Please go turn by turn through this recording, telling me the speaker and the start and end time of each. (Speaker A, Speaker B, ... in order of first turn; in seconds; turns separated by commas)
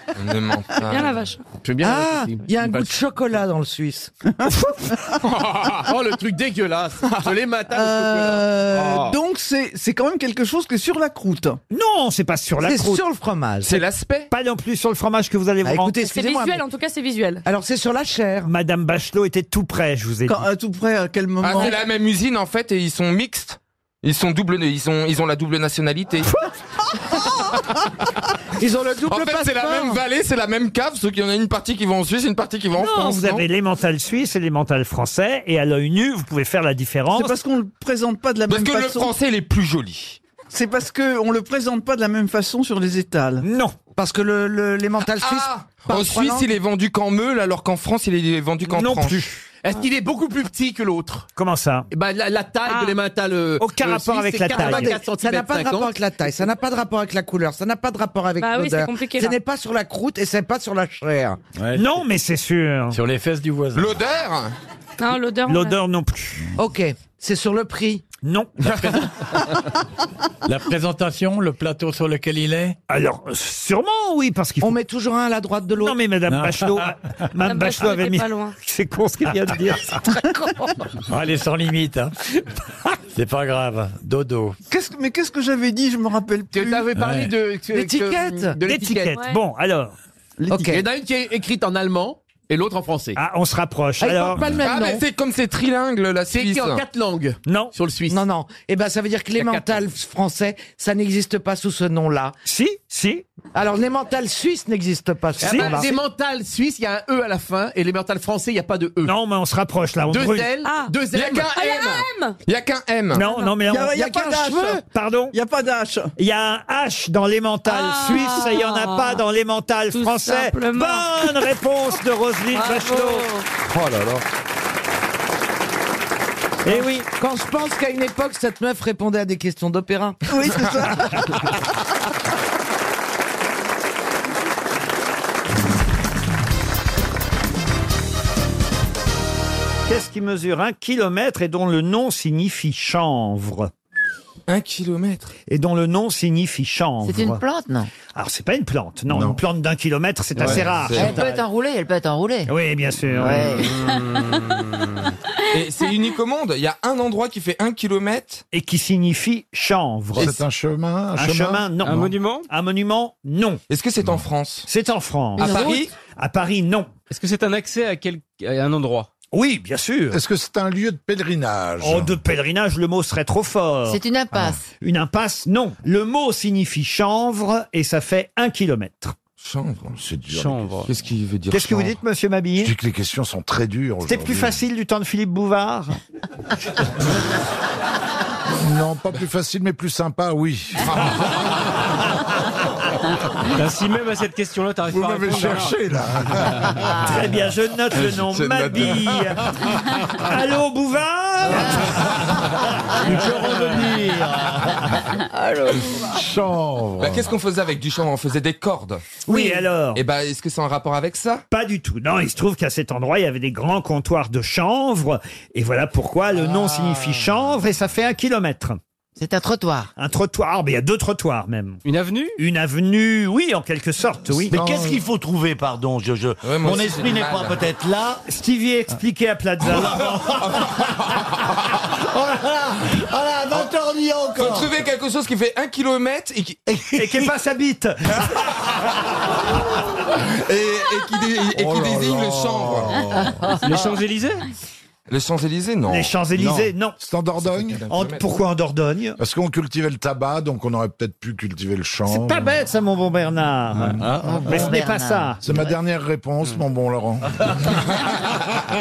Speaker A: 0.2-1.3, Speaker B: 0.9-1.4, Speaker C: 1.6-2.5, Speaker D: 1.8-4.1, Speaker A: 5.3-5.8, Speaker C: 5.8-9.1, Speaker D: 7.8-8.3, Speaker E: 8.4-11.6, Speaker F: 11.7-13.0, Speaker D: 12.6-13.8, Speaker A: 13.6-14.3, Speaker F: 14.3-16.0, Speaker D: 15.6-16.6, Speaker B: 16.0-17.4, Speaker D: 17.5-18.5, Speaker F: 18.5-20.5, Speaker E: 20.3-21.8, Speaker A: 21.4-26.3, Speaker D: 28.6-30.0, Speaker A: 29.0-33.5, Speaker F: 32.8-37.4, Speaker E: 37.1-39.1, Speaker A: 38.5-40.2, Speaker E: 40.5-43.4, Speaker F: 43.4-43.8, Speaker D: 44.0-46.5, Speaker A: 45.0-49.2, Speaker F: 48.7-49.5, Speaker C: 49.6-51.3, Speaker F: 51.4-51.9, Speaker C: 51.9-56.0, Speaker B: 52.7-53.0, Speaker F: 53.6-55.0, Speaker D: 54.6-61.4, Speaker B: 58.4-59.4, Speaker G: 61.6-61.9, Speaker F: 61.8-63.0, Speaker G: 62.9-64.0, Speaker A: 63.8-64.6, Speaker B: 65.0-65.8, Speaker F: 65.5-66.5, Speaker D: 66.6-68.0, Speaker F: 68.2-69.1, Speaker G: 70.5-72.8, Speaker F: 72.9-74.8, Speaker D: 74.6-76.0, Speaker F: 75.8-80.1, Speaker G: 76.3-76.9, Speaker B: 77.5-78.5, Speaker G: 81.1-82.1, Speaker G: 83.1-84.6, Speaker E: 84.7-86.8, Speaker C: 86.5-89.2, Speaker G: 86.9-87.4, Speaker D: 87.7-88.6, Speaker F: 88.7-90.0, Speaker B: 89.1-89.4, Speaker D: 90.4-90.8, Speaker C: 90.6-93.2, Speaker F: 93.2-94.5, Speaker D: 94.0-95.0, Speaker A: 94.6-96.8, Speaker C: 96.3-98.2, Speaker F: 97.5-97.7, Speaker D: 98.1-102.3, Speaker C: 99.4-99.8, Speaker F: 102.5-103.2, Speaker D: 103.5-106.0, Speaker F: 105.4-105.8, Speaker C: 105.4-109.1, Speaker F: 109.0-110.5, Speaker C: 110.1-111.7, Speaker B: 110.6-112.4, Speaker A: 111.1-113.3, Speaker F: 113.1-115.4, Speaker E: 113.7-114.8, Speaker E: 115.3-116.1, Speaker F: 116.2-123.3, Speaker B: 117.7-119.2, Speaker B: 119.9-121.2, Speaker B: 122.5-123.5, Speaker A: 123.7-124.3, Speaker F: 126.7-127.1, Speaker D: 127.2-130.2, Speaker E: 130.3-131.1, Speaker F: 139.9-143.7, Speaker A: 144.5-145.3, Speaker F: 145.5-147.4, Speaker H: 147.0-147.9, Speaker F: 148.2-151.4, Speaker I: 149.1-149.4, Speaker A: 150.4-151.2, Speaker H: 150.9-152.5, Speaker F: 152.5-153.5, Speaker H: 153.2-153.8, Speaker A: 155.5-158.4, Speaker F: 158.5-160.4, Speaker I: 160.2-161.7, Speaker F: 161.2-163.6, Speaker J: 161.8-162.5, Speaker A: 163.7-164.7, Speaker F: 164.7-166.9, Speaker A: 165.4-165.9, Speaker J: 167.1-169.1, Speaker F: 169.3-170.2, Speaker I: 170.1-172.2, Speaker F: 171.8-174.0, Speaker H: 173.9-174.6, Speaker F: 174.8-179.2, Speaker A: 179.4-180.0, Speaker I: 180.0-180.8, Speaker A: 180.9-181.9, Speaker F: 181.5-182.7, Speaker I: 182.6-184.6, Speaker F: 184.0-186.0, Speaker I: 188.6-191.1, Speaker A: 190.9-191.2, Speaker J: 193.6-195.8, Speaker I: 194.9-196.7, Speaker F: 197.0-199.5, Speaker A: 198.1-199.0, Speaker F: 200.1-202.1, Speaker K: 203.0-204.9, Speaker I: 206.1-207.3, Speaker A: 207.0-209.0, Speaker F: 209.3-210.0, Speaker A: 209.9-211.4, Speaker F: 211.5-218.8, Speaker H: 219.2-219.9, Speaker F: 220.0-221.8, Speaker J: 221.8-222.4, Speaker F: 222.4-224.6, Speaker K: 224.5-228.2, Speaker I: 224.6-225.0, Speaker A: 226.4-227.7, Speaker F: 228.3-230.0, Speaker A: 229.8-231.3, Speaker K: 229.9-230.8, Speaker K: 232.2-234.8, Speaker A: 234.4-236.6, Speaker F: 236.9-238.5, Speaker A: 240.2-243.0, Speaker I: 241.6-243.3, Speaker J: 243.6-244.4, Speaker A: 245.1-246.2, Speaker F: 245.9-247.0, Speaker K: 246.4-246.7, Speaker I: 247.0-247.8, Speaker A: 247.4-248.2, Speaker F: 247.9-249.2, Speaker I: 249.2-252.5, Speaker F: 252.1-255.4, Speaker I: 254.0-254.6, Speaker H: 254.2-255.6, Speaker I: 255.4-257.6